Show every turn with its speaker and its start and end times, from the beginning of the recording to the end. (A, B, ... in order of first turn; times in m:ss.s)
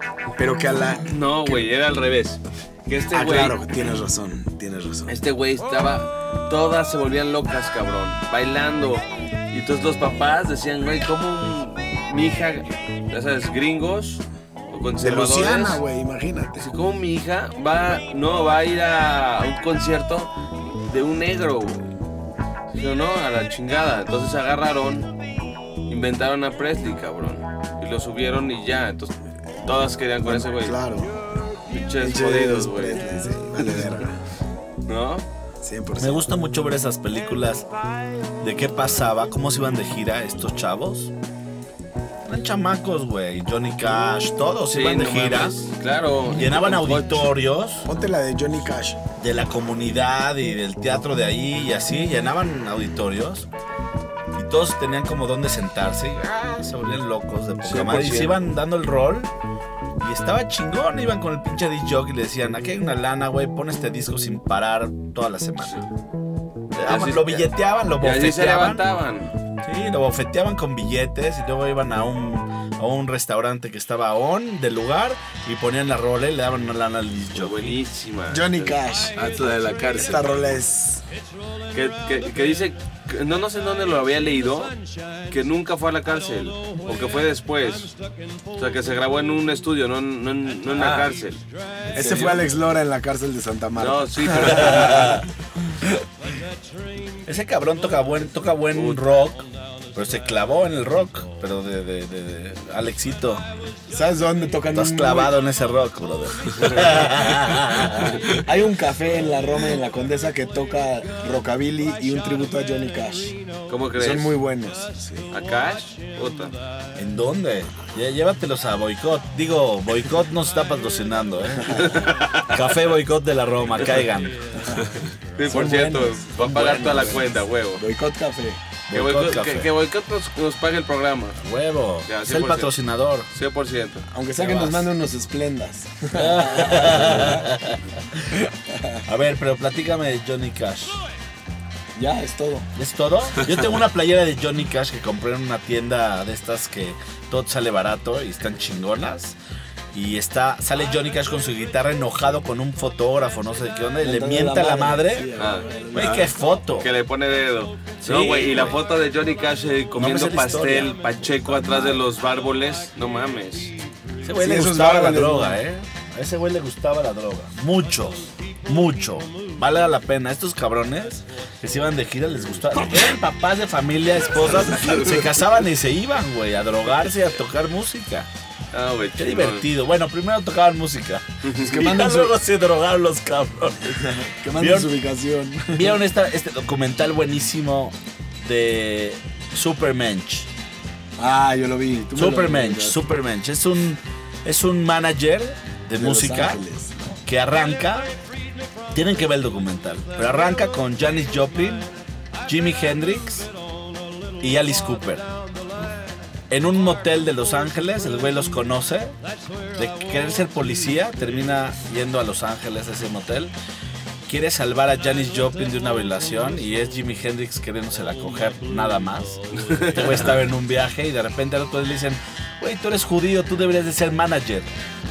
0:00.4-0:01.6 A
0:01.1-0:03.6 B
0:03.1-0:05.2 A
0:05.1-0:15.8 B
0:15.0-0:16.7 A
0:16.6-0:20.3 B
0:20.8-0:21.8 B
0:22.7-0:25.1 B
0:25.9-0:30.8 B
0:30.2-0:31.2 A
0:31.7-0:33.0 B
0:32.0-0:34.2 A
0:34.9-0:35.3 B
0:35.6-0:36.2 A
0:36.0-0:37.7 C
0:38.4-0:41.1 C
0:42.2-0:45.6 C
0:44.7-0:47.3 B
0:46.3-0:47.9 C
0:47.8-0:49.0 A
0:49.2-0:53.5 C
0:54.4-0:59.3 C
0:57.6-0:58.4 B
1:00.0-1:05.9 C
1:05.6-1:05.9 B
1:06.7-1:09.3 B
1:06.8-1:08.8 C
1:09.6-1:17.7 C
1:17.3-1:18.8 B
1:18.3-1:19.2 A
1:19.2-1:20.4 D
1:20.0-1:21.0 A
1:21.7-1:24.7 B
1:25.3-1:27.9 B
1:28.6-1:31.4 B
1:30.7-1:31.1 D
1:31.9-1:32.5 D
1:31.9-1:35.1 A
1:33.8-1:35.2 B
1:34.5-1:35.3 C
1:37.3-1:43.5 C
1:38.7-1:39.0 B
1:43.9-1:45.3 A
1:44.7-1:48.2 C
1:46.6-1:46.8 B
1:48.3-1:53.4 A
1:53.7-1:54.4 B
1:54.0-1:55.3 A
1:55.3-1:56.6 B
1:57.0-2:04.5 C
2:01.7-2:02.6 B
2:04.6-2:04.9 A
2:05.4-2:07.8 B
2:05.5-2:08.6 A
2:08.9-2:09.7 C
2:08.9-2:11.4 B
2:11.4-2:13.3 C
2:12.1-2:12.7 B
2:13.3-2:14.8 B
2:14.1-2:17.5 A
2:16.1-2:17.8 C
2:18.5-2:19.0 A
2:19.1-2:21.0 C
2:22.0-2:22.7 A
2:22.8-2:29.4 C
2:29.9-2:35.3 C
2:34.0-2:36.3 A
2:35.4-2:43.8 B
2:35.9-2:36.9 C
2:38.0-2:38.8 C
2:40.0-2:42.1 C
2:44.2-2:58.3 C
2:44.4-2:45.6 A
2:58.7-2:59.7 B
2:59.2-3:04.9 C
3:01.4-3:01.8 B
3:01.6-3:02.3 A
3:03.9-3:06.0 A
3:05.7-3:10.5 C
3:11.2-3:13.0 A
3:12.1-3:18.1 C
3:16.0-3:17.0 A
3:18.9-3:21.9 C
3:22.5-3:23.5 C
3:24.4-3:25.3 C
3:26.5-3:29.2 C
3:29.8-3:33.5 C
3:34.3-3:44.7 C
3:39.6-3:40.2 B